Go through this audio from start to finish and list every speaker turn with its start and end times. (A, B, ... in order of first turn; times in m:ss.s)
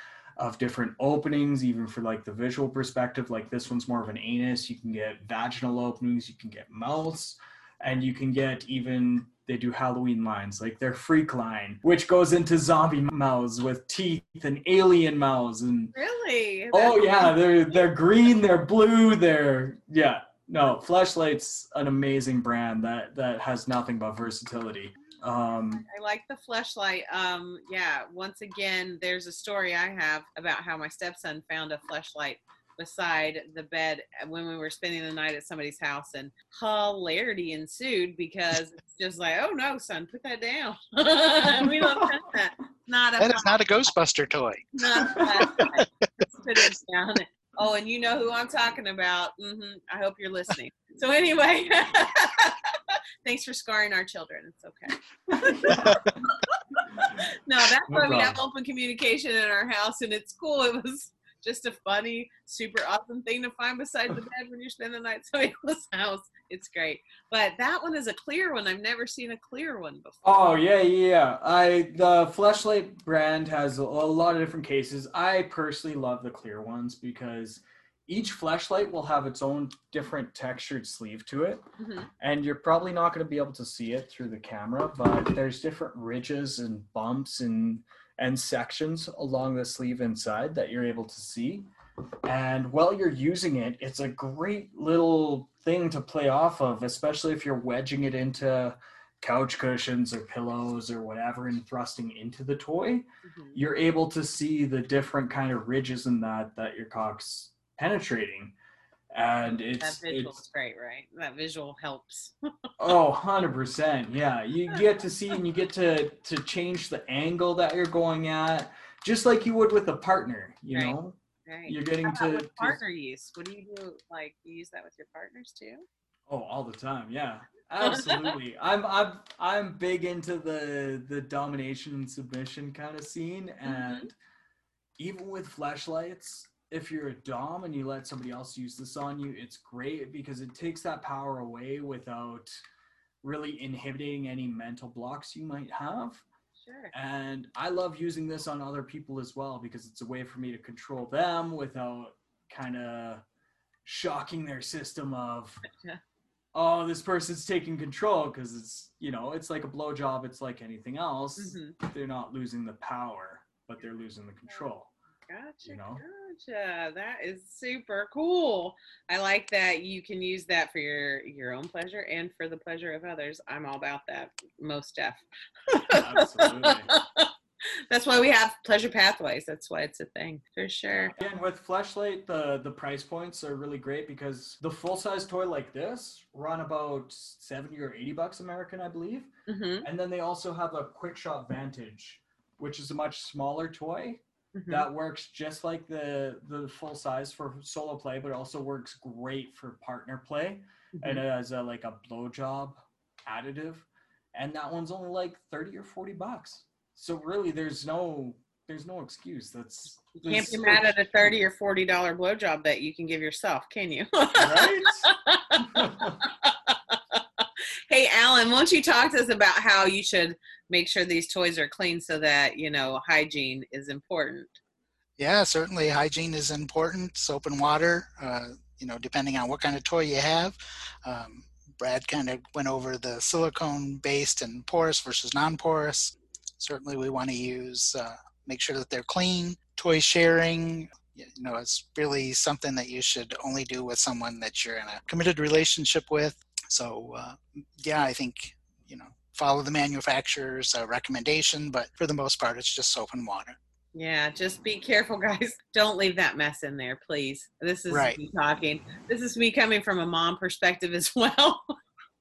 0:00.4-0:15.9 A
0:16.0-0:17.3 B
0:16.7-0:25.8 A
0:25.7-0:43.8 B
0:43.2-0:45.3 C
0:44.8-1:10.6 B
0:55.3-0:56.2 A
0:57.9-0:58.4 A
1:10.2-1:21.7 A
1:21.8-1:22.1 B
1:22.2-1:31.7 A
1:32.3-1:48.5 A
1:43.3-1:43.6 B
1:49.1-1:50.4 A
1:49.4-1:52.4 B
1:52.8-2:02.8 A
2:01.5-2:05.9 B
2:06.3-2:14.2 A
2:07.8-2:08.4 B
2:13.7-2:14.1 B
2:15.0-2:22.6 A
2:23.2-2:26.2 A
2:26.6-2:26.9 B
2:26.9-2:33.2 A
2:33.8-2:35.6 A
2:35.7-2:36.0 B
2:36.5-2:44.9 A
2:41.4-2:41.8 B
2:45.3-2:57.3 B
2:45.6-2:46.0 A
2:55.9-2:56.9 A
2:57.9-3:01.2 B
3:01.1-3:30.9 A
3:09.5-3:09.9 B
3:14.6-3:14.9 B
3:21.0-3:21.2 B
3:30.2-3:44.6 B
3:34.4-3:35.1 A
3:35.8-3:36.2 A
3:45.2-4:13.6 C
4:14.0-4:21.7 B
4:17.9-4:18.2 C